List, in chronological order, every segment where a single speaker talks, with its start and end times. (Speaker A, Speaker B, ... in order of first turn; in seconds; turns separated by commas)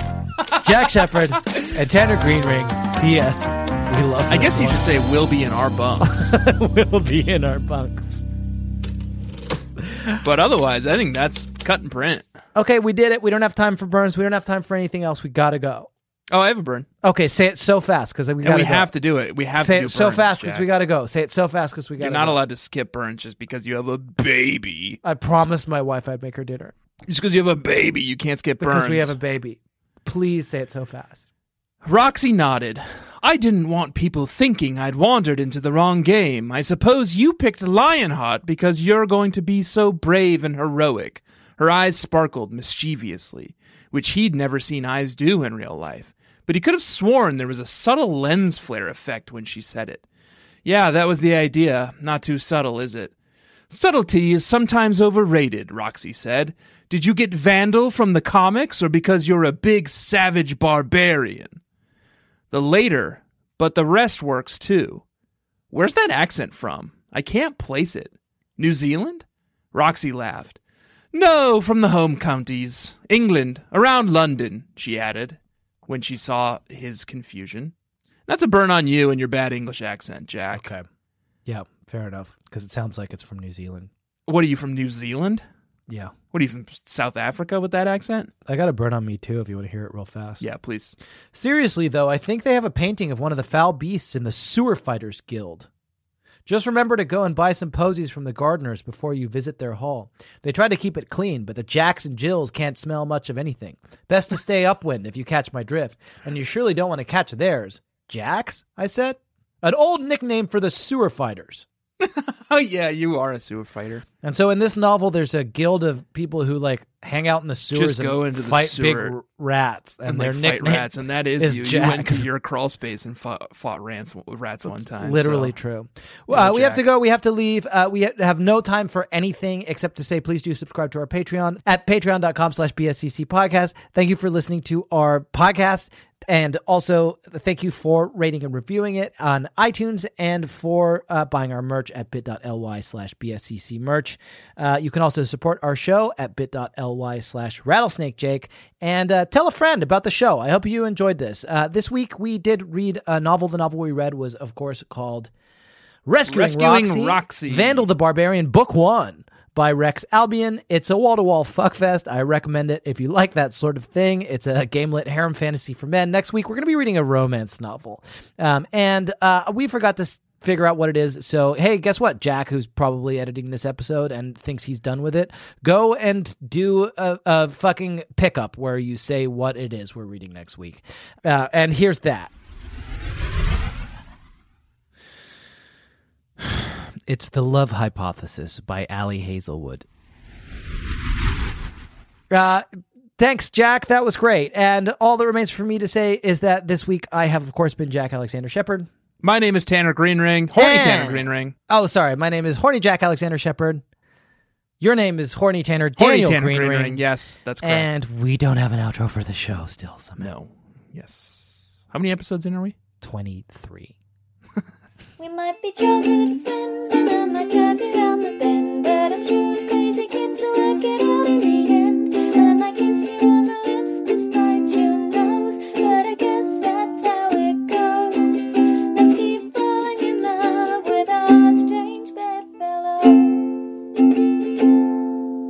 Speaker A: 0.4-4.8, Speaker B: 1.0-1.6, Speaker B: 4.3-6.3, Speaker A: 6.0-8.2, Speaker B: 10.2-12.2, Speaker A: 12.5-15.9, Speaker B: 16.3-16.9, Speaker A: 17.0-18.9, Speaker B: 18.4-20.7, Speaker A: 19.6-22.4, Speaker B: 22.0-25.0, Speaker A: 25.0-26.7, Speaker B: 27.1-29.1, Speaker A: 28.6-31.3, Speaker B: 31.8-50.0, Speaker B: 50.6-53.1, Speaker B: 53.7-61.6, Speaker B: 62.5-65.0, Speaker B: 65.7-70.6, Speaker B: 71.1-77.7, Speaker B: 78.3-80.7, Speaker A: 80.5-80.8, Speaker A: 81.5-83.9, Speaker B: 84.3-85.4, Speaker B: 86.3-88.3, Speaker A: 88.5-90.4, Speaker B: 90.4-91.0, Speaker A: 91.3-95.7, Speaker A: 96.5-111.7, Speaker B: 112.0-114.0, Speaker A: 114.2-122.2, Speaker B: 117.7-119.2, Speaker B: 120.0-125.5, Speaker A: 124.7-155.3, Speaker B: 126.3-126.8, Speaker A: 156.1-182.3, Speaker B: 156.3-157.8, Speaker A: 187.1-189.8, Speaker A: 192.3-192.6, Speaker A: 193.2-198.9, Speaker B: 199.2-201.5, Speaker A: 200.5-203.8, Speaker A: 204.8-207.0, Speaker B: 206.0-207.9, Speaker A: 207.6-210.3, Speaker B: 210.2-212.8, Speaker A: 213.0-213.9, Speaker C: 215.2-233.8